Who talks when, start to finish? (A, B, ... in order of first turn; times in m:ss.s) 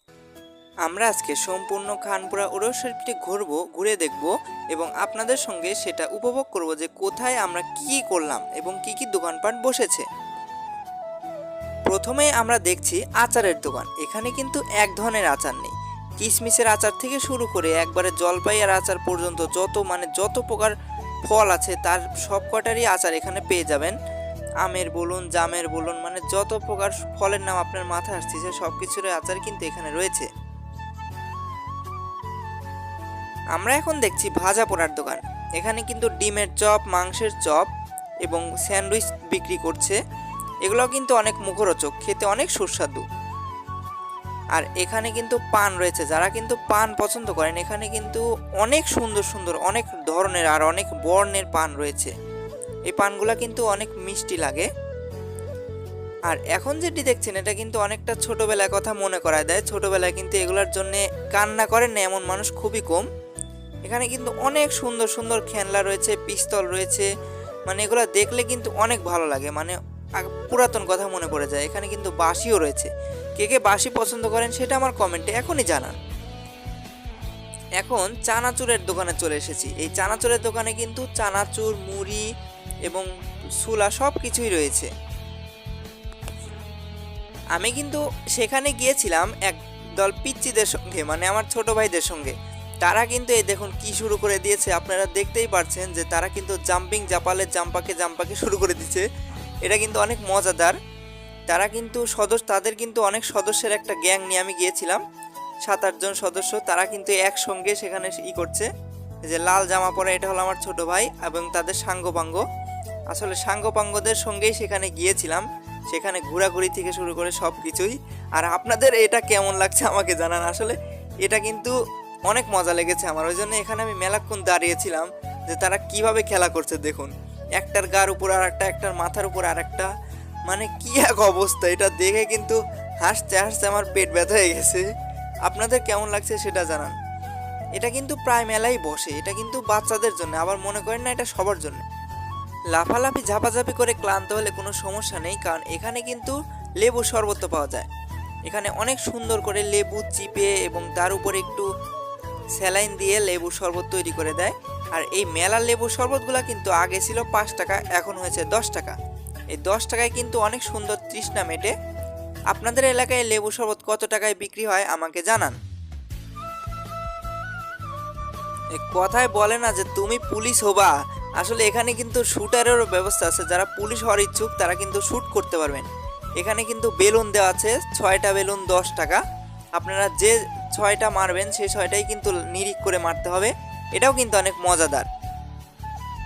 0:00.9-0:10.0 A
0:11.9-0:20.7 A
0:21.3-0:23.9 A
0:24.6-0:30.3 A
0:33.6-0:37.7 A
0:38.2-0:40.0 A
0:40.6-0:43.0 A
0:44.5-0:52.1 A
0:52.9-0:54.7 A
0:56.3-1:03.0 A
1:03.9-1:07.1 A
1:07.7-1:16.0 A
1:17.8-1:22.2 A
1:23.6-1:24.9 A
1:27.6-1:39.0 A
1:39.7-1:40.8 A
1:41.5-1:45.0 A
1:45.7-1:48.7 A
1:49.3-1:52.4 A
1:53.1-2:01.7 A
2:02.3-2:09.9 A
2:10.5-2:14.8 A
2:15.5-2:17.0 A
2:17.8-2:21.8 A
2:22.7-2:27.9 A
2:28.5-2:31.7 A
2:32.6-2:39.0 A
2:39.5-2:41.7 A
2:42.5-2:45.6 A
2:48.7-2:55.9 A
2:56.4-2:59.2 A
2:59.8-3:05.1 A